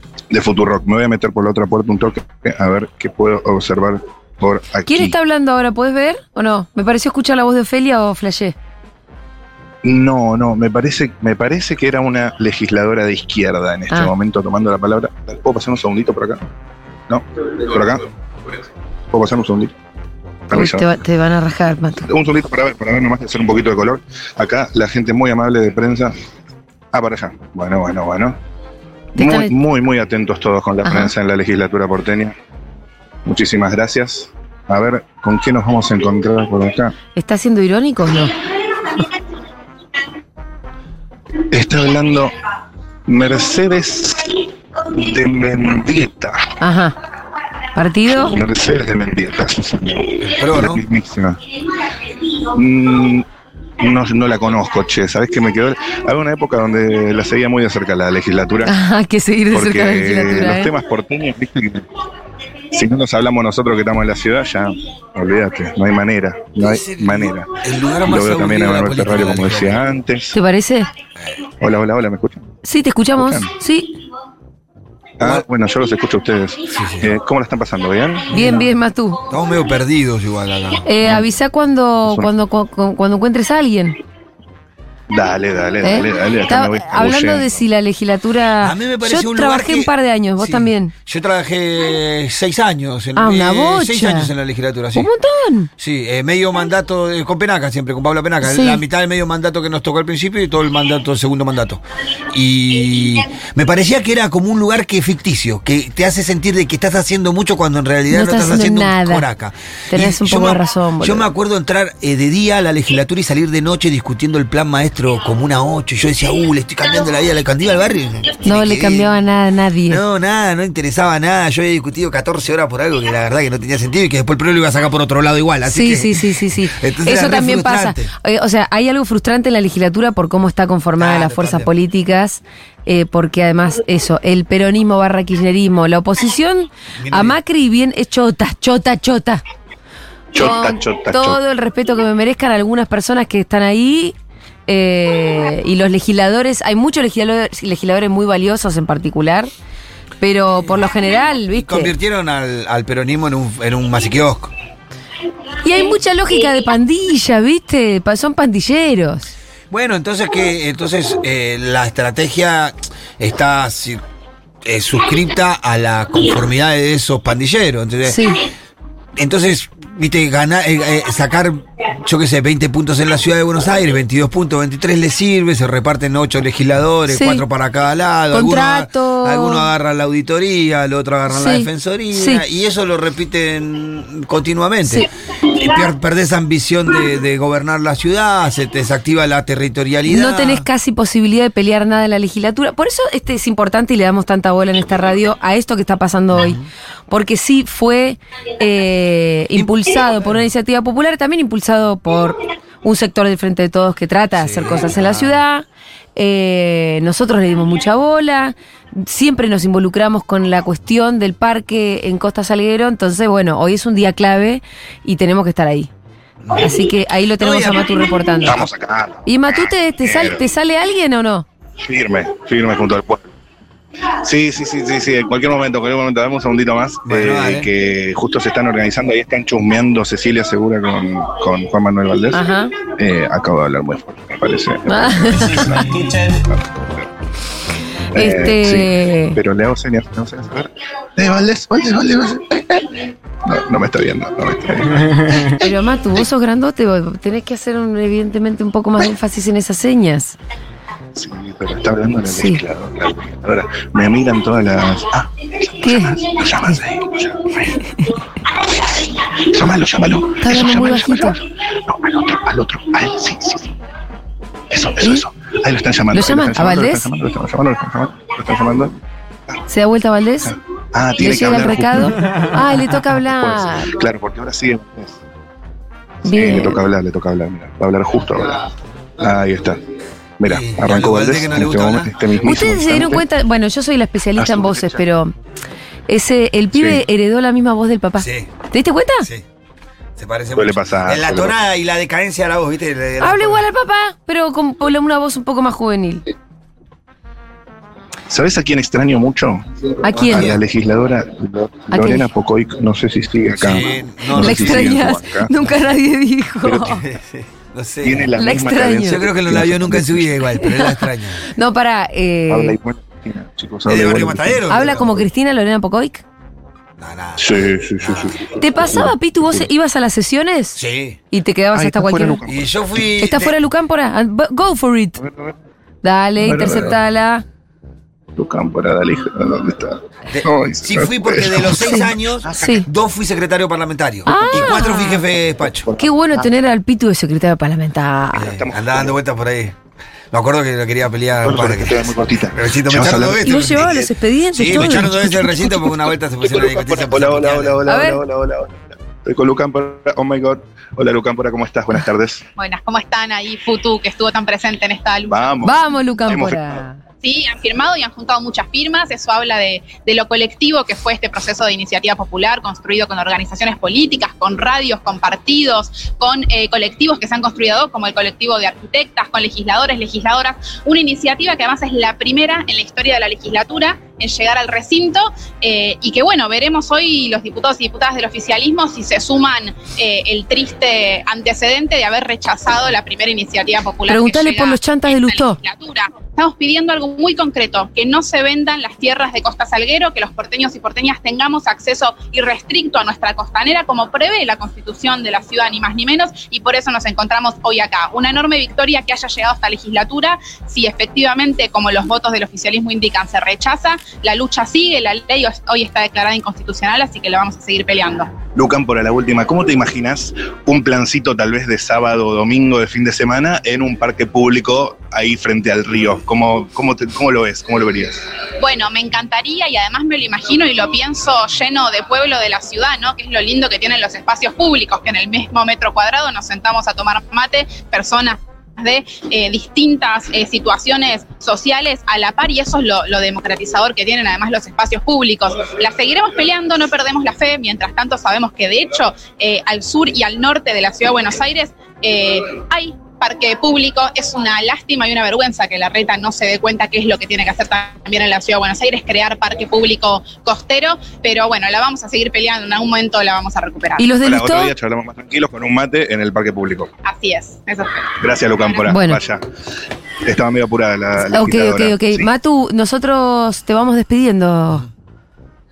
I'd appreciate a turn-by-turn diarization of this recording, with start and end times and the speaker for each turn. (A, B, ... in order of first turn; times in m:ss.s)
0:00.3-0:05.1 A
0:04.9-0:08.6 B
0:09.8-0:16.4 A
0:17.1-0:18.1 A
0:19.1-0:19.7 A
0:20.5-0:20.9 A
0:20.5-0:22.1 B
0:22.1-0:26.1 A
0:26.9-0:28.4 A
0:29.2-0:29.5 B
0:29.2-0:32.4 A
0:30.8-0:31.1 B
0:33.2-0:36.9 A
0:37.2-0:38.3 B
0:41.5-0:42.3 A
0:43.1-0:46.5 A
0:46.6-0:46.9 B
0:47.7-0:48.4 B
0:48.2-0:51.4 A
0:50.2-0:50.8 C
0:52.4-0:53.2 A
0:53.8-0:58.7 A
0:58.6-1:00.7 B
0:59.5-1:01.9 A
1:02.7-1:10.4 A
1:06.6-1:09.8 C
1:10.3-1:10.9 B
1:11.6-1:12.5 A
1:12.6-1:14.0 B
1:13.2-1:13.5 A
1:15.2-1:18.6 A
1:16.7-1:17.1 C
1:18.3-1:19.2 B
1:19.3-1:21.2 C
1:20.8-1:24.0 B
1:22.0-1:22.3 A
1:25.1-1:27.6 A
1:25.8-1:30.9 B
1:28.6-1:35.1 C
1:33.2-1:34.3 B
1:34.9-1:35.7 B
1:35.8-1:59.1 C
1:38.4-1:38.8 B
1:48.1-1:49.2 B
1:49.9-1:51.3 B
1:58.4-2:00.0 B
1:59.9-2:08.1 C
2:05.7-2:19.4 B
2:11.0-2:11.7 C
2:17.0-2:17.4 C
2:20.3-2:21.4 A
2:20.4-2:24.1 B
2:24.7-2:29.5 B
2:30.2-2:31.9 B
2:30.5-2:30.8 C
2:31.5-2:34.5 C
2:35.6-2:39.3 B
2:39.7-2:44.0 C
2:44.6-2:48.3 C
2:48.1-2:48.4 B
2:49.2-3:10.7 C
2:57.1-2:57.4 B
2:58.3-2:59.7 B
3:01.3-3:02.4 B
3:10.1-3:25.6 B
3:16.4-3:16.7 C
3:24.4-3:25.4 C
3:26.2-3:35.9 B
3:36.6-3:38.6 B
3:37.4-3:40.4 A
3:39.2-3:41.4 B
3:41.8-3:43.3 A
3:44.2-3:57.1 A
3:47.1-3:47.7 C
3:52.3-3:52.7 B
3:54.9-3:55.9 B
3:58.1-4:05.6 A
3:58.2-3:59.4 B
4:05.6-4:10.4 B
4:11.1-4:23.7 A
4:12.3-4:12.6 B
4:15.8-4:16.2 B
4:20.4-4:21.4 B
4:24.7-4:29.0 A
4:26.1-4:27.1 B
4:29.7-4:30.5 B
4:30.5-4:32.6 A
4:31.2-4:33.9 B
4:33.1-4:35.2 A
4:36.2-4:36.8 B
4:36.2-4:39.8 A
4:40.4-4:43.2 A
4:40.4-4:42.3 C
4:42.4-4:45.3 B
4:44.4-4:45.0 A
4:46.1-4:49.3 B
4:46.7-4:47.0 A
4:48.2-4:48.5 C
4:50.2-4:53.6 C
4:50.6-4:51.5 A
4:53.2-4:56.2 B
4:58.3-4:59.6 A
5:00.0-5:00.5 B
5:00.1-5:00.6 C
5:00.2-5:05.5 A
5:01.9-5:02.3 B
5:03.5-5:05.0 C
5:04.4-5:07.0 B
5:06.6-5:07.0 A
5:06.8-5:11.5 C
5:08.0-5:10.5 A
5:08.4-5:09.2 B
5:10.6-5:12.8 B
5:12.5-5:14.7 A
5:13.9-5:15.2 C
5:14.7-5:16.2 B
5:17.0-5:18.4 C
5:17.4-5:19.6 A
5:18.6-5:20.8 B
5:20.8-5:21.2 C
5:21.3-5:22.4 B
5:21.7-5:23.0 A
5:22.4-5:23.6 C
5:23.2-5:25.2 B
5:25.2-5:25.6 A
5:26.0-5:27.4 B
5:26.4-5:27.0 A
5:28.4-5:32.8 A
5:30.3-5:35.9 C
5:31.8-5:32.9 B
5:34.2-5:35.2 B
5:35.8-5:36.5 A
5:36.0-5:38.5 B
5:38.4-5:39.8 C
5:38.4-5:39.2 A
5:40.3-5:44.0 C
5:41.4-5:44.1 A
5:43.4-5:45.9 B
5:44.5-5:47.8 C
5:46.4-5:52.4 A
5:47.9-5:48.2 B
5:52.6-5:55.4 D
5:55.3-5:56.8 A
5:55.6-5:57.0 B
5:57.2-6:48.4 D
6:24.1-6:25.6 B
6:48.6-6:58.3 A
6:58.6-7:34.1 D
7:34.0-7:34.7 B
7:34.2-7:36.9 A
7:37.0-7:38.0 D
7:38.1-7:39.4 A
7:38.9-7:39.2 B
7:40.2-7:42.3 A
7:41.2-7:44.9 B